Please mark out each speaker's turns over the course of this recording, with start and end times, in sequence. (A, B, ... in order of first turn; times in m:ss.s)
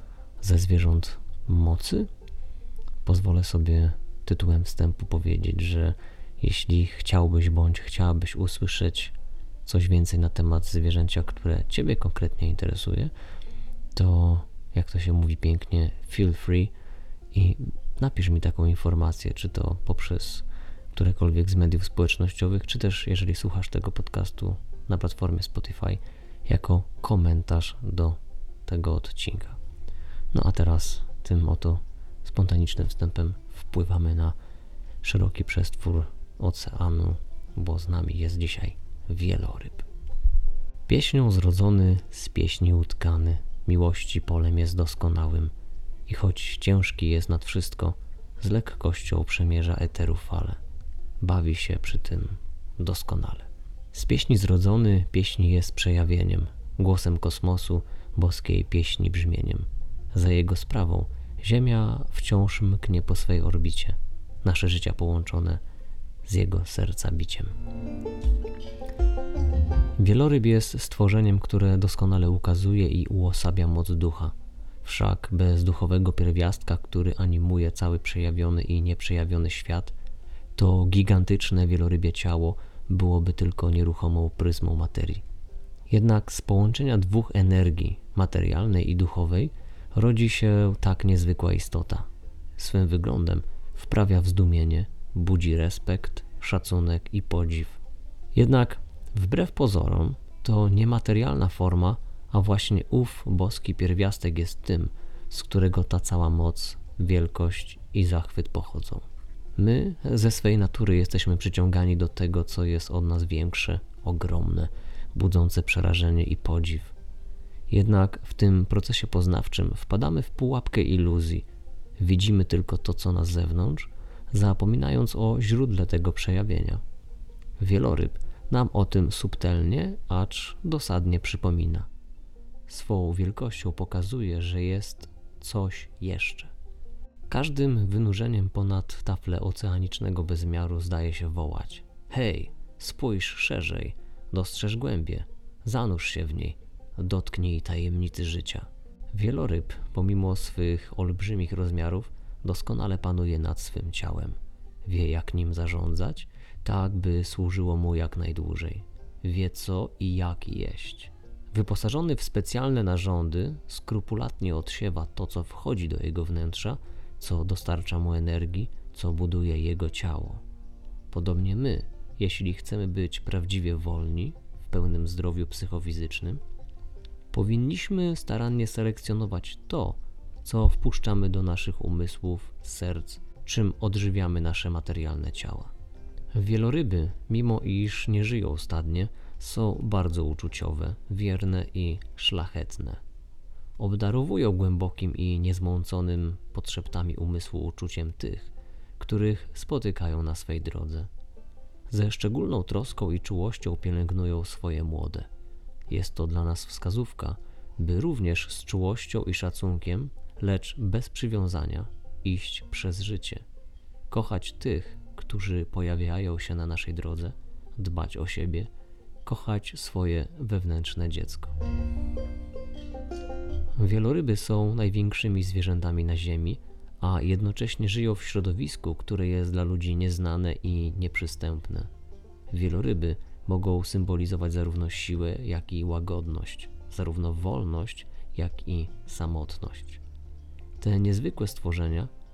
0:00.4-0:02.1 A
0:03.0-0:09.1 A
0:09.6-0:13.1 A
0:13.9-0:16.7 A
0:17.3-0:29.6 A
0:30.3-0:34.4 A
0:35.0-0:39.9 A
0:40.9-0:45.5 A
0:46.1-0:50.6 A
0:51.2-1:05.6 A
1:06.2-1:07.5 A
1:10.0-1:19.9 A
1:20.6-1:25.2 A
1:25.9-1:37.8 A
1:38.3-1:49.0 A
1:49.6-1:56.9 A
1:57.7-2:01.4 A
2:02.0-2:06.8 A
2:07.6-2:11.9 A
2:12.7-2:16.5 A
2:17.3-2:50.4 A
2:51.1-2:56.4 A
2:57.3-3:05.7 A
3:06.3-3:13.0 A
3:13.8-3:21.1 A
3:21.9-3:25.3 A
3:25.9-3:33.4 A
3:34.1-3:38.7 A
3:39.2-3:41.5 A
3:43.8-3:51.9 A
3:52.5-4:00.0 A
4:00.8-4:02.1 A